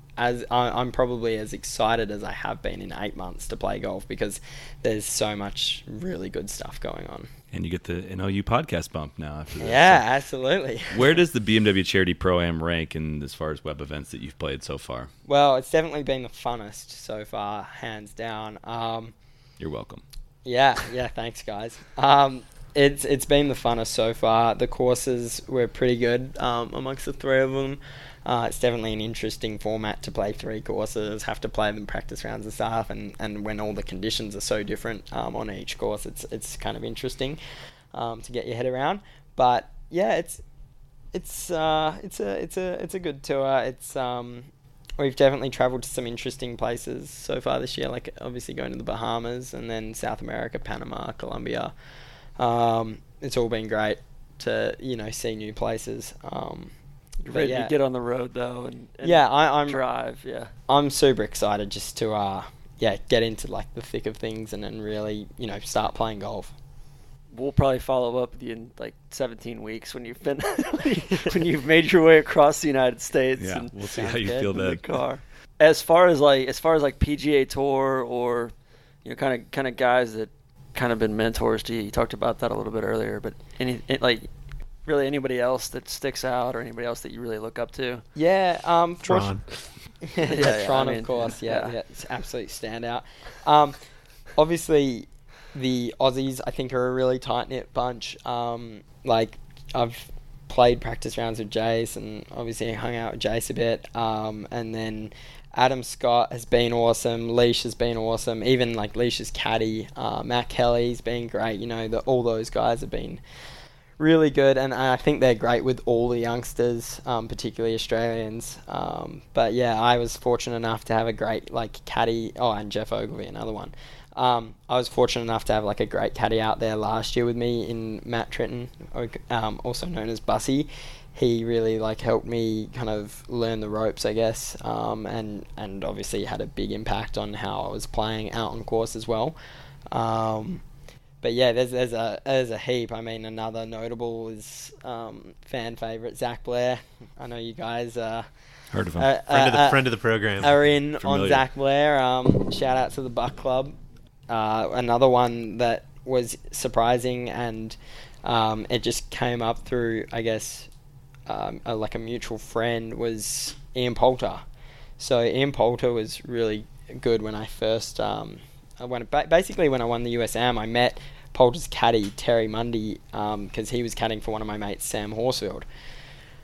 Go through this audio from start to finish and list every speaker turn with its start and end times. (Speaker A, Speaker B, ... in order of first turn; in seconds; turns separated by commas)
Speaker A: 0.2-7.3, Speaker B: 7.5-10.0, Speaker A: 9.6-11.1, Speaker B: 10.9-15.1, Speaker A: 15.3-19.1, Speaker B: 19.6-20.0, Speaker A: 20.4-37.4, Speaker A: 37.9-40.4, Speaker A: 41.1-51.7, Speaker A: 52.4-56.7, Speaker C: 57.2-60.5, Speaker A: 57.3-57.7, Speaker A: 59.0-59.8, Speaker A: 60.7-66.5, Speaker C: 67.3-78.5, Speaker B: 73.4-74.8, Speaker A: 73.9-74.4, Speaker C: 79.0-84.3, Speaker C: 84.9-88.0, Speaker A: 88.2-89.4, Speaker D: 89.0-89.7, Speaker A: 90.0-93.8, Speaker C: 90.2-91.7, Speaker A: 94.4-113.2, Speaker A: 114.0-139.3, Speaker A: 139.9-140.6, Speaker A: 141.2-148.3, Speaker B: 148.7-149.1, Speaker A: 149.0-149.8, Speaker D: 149.3-150.6, Speaker A: 150.4-153.8, Speaker B: 151.0-151.4, Speaker A: 154.3-160.7, Speaker A: 161.3-164.4, Speaker A: 165.0-175.7